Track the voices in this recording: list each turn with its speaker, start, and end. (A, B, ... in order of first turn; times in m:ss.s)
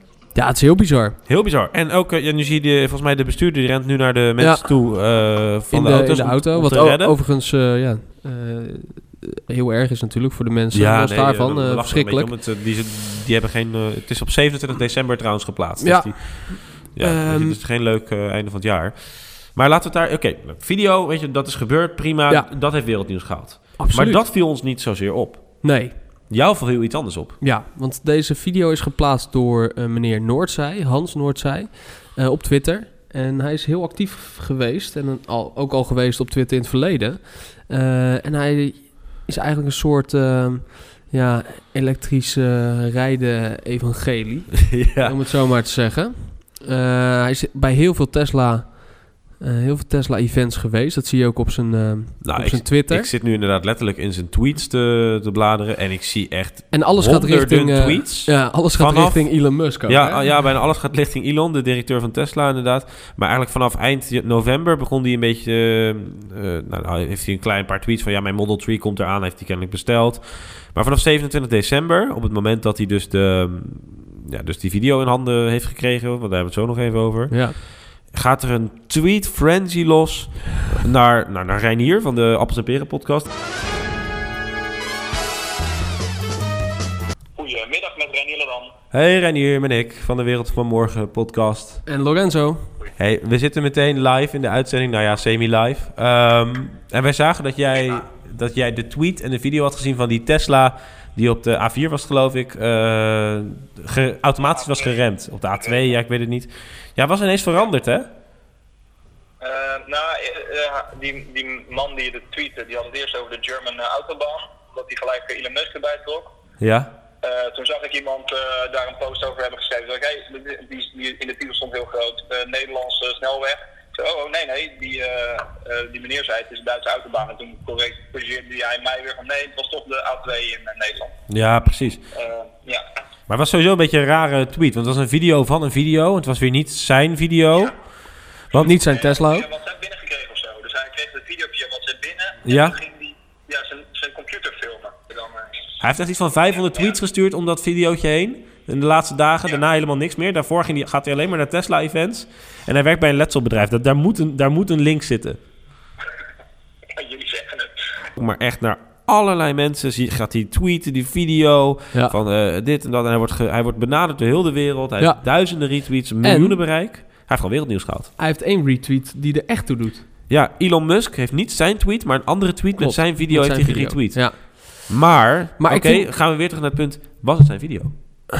0:00.3-0:01.2 A
0:01.2-0:07.1 B
0:04.4-0:04.7 A
0:05.7-0:12.3 A
0:10.7-0:25.7 B
0:15.8-0:17.6 A
0:23.8-0:24.2 A
0:25.6-0:25.9 A
0:26.3-0:27.4 B
0:27.4-0:53.1 A
0:44.7-0:45.2 B
0:52.2-1:23.3 B
0:56.7-1:00.3 A
1:17.3-1:17.6 A
1:27.4-1:28.7 C
1:28.9-1:31.8 B
1:31.8-1:32.7 A
1:33.0-1:48.1 B
1:44.4-1:45.0 C
1:45.5-1:45.8 C
1:49.4-1:56.3 C
1:56.6-1:56.9 B
1:57.2-2:11.1 C
2:11.3-2:12.0 B
2:12.1-2:12.8 C
2:13.3-2:17.8 B
2:18.5-2:25.6 C
2:18.6-2:19.5 A
2:22.4-2:22.8 B
2:25.8-2:35.4 B
2:36.9-2:37.8 C
2:38.2-2:48.1 B
2:45.0-2:45.5 A
2:46.2-2:46.6 A
2:48.2-2:50.1 A
2:50.3-2:57.9 B
2:52.8-2:55.0 A
2:55.6-2:56.1 A